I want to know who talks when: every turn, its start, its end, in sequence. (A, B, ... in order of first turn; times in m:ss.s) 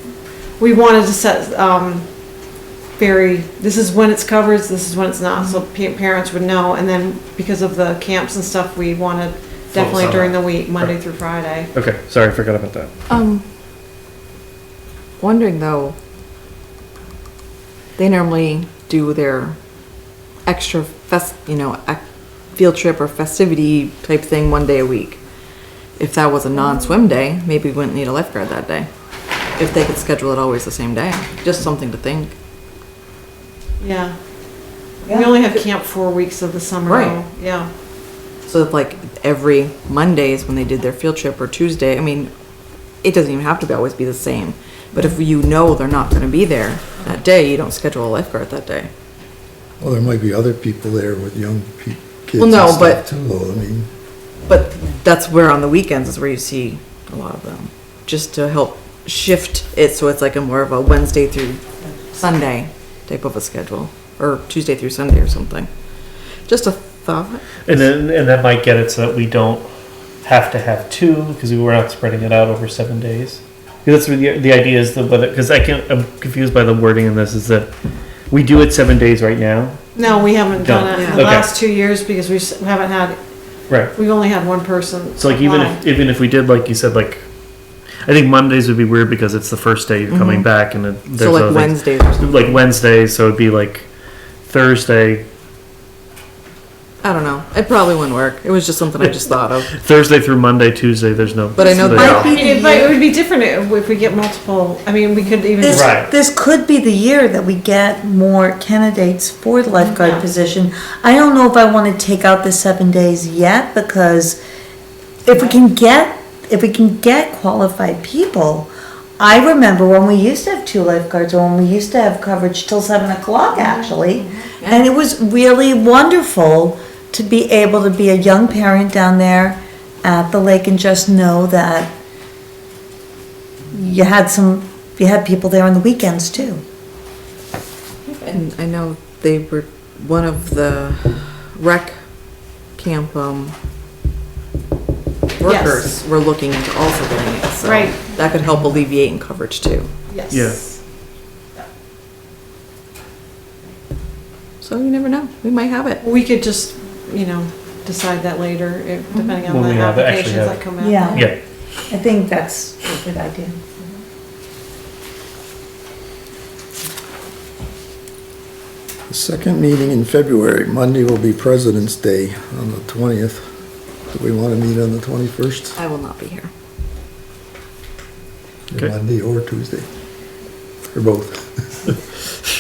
0:00.6-0:02.1 A
0:03.0-0:11.7 A
0:09.7-0:11.0 B
0:11.7-0:12.9 B
0:13.1-0:13.4 C
0:15.2-0:16.0 C
0:18.0-0:19.6 C
0:20.5-0:22.0 C
0:22.5-0:25.2 C
0:26.0-0:28.9 C
0:29.6-0:32.4 C
0:33.8-0:34.2 A
0:35.1-0:37.7 A
0:36.9-0:37.2 C
0:38.5-0:42.3 C
0:43.0-0:48.9 C
0:49.8-0:53.9 D
0:52.4-0:53.0 C
0:54.5-1:05.7 C
1:06.5-1:07.6 C
1:07.7-1:09.7 B
1:10.2-1:17.7 B
1:18.3-1:19.8 B
1:20.0-1:23.2 A
1:20.6-1:21.5 B
1:20.9-1:21.3 C
1:23.7-1:23.9 B
1:23.9-1:25.8 A
1:25.2-1:27.2 B
1:28.0-1:33.9 B
1:31.2-1:32.7 C
1:34.5-1:35.3 B
1:37.0-1:39.7 C
1:39.0-1:42.3 B
1:41.6-1:42.4 C
1:41.8-1:43.0 E
1:41.9-1:46.0 A
1:45.6-1:54.4 E
1:45.7-1:46.1 B
1:49.8-1:50.3 A
1:55.2-2:12.0 E
2:03.5-2:04.9 C
2:13.7-2:16.6 E
2:18.1-2:22.0 C
2:22.8-2:23.6 C
2:25.4-2:29.9 C
2:25.4-2:25.9 A
2:27.6-2:28.0 A
2:30.1-2:30.8 A
2:30.3-2:30.7 B
2:34.6-2:36.0 C
2:36.0-2:41.3 A
2:39.4-2:41.4 B
2:40.8-2:41.3 E
2:41.9-2:43.6 E
2:49.1-2:53.5 D
2:54.1-2:55.8 D
2:55.8-2:56.5 C
2:58.7-2:59.9 D
3:00.9-3:01.9 D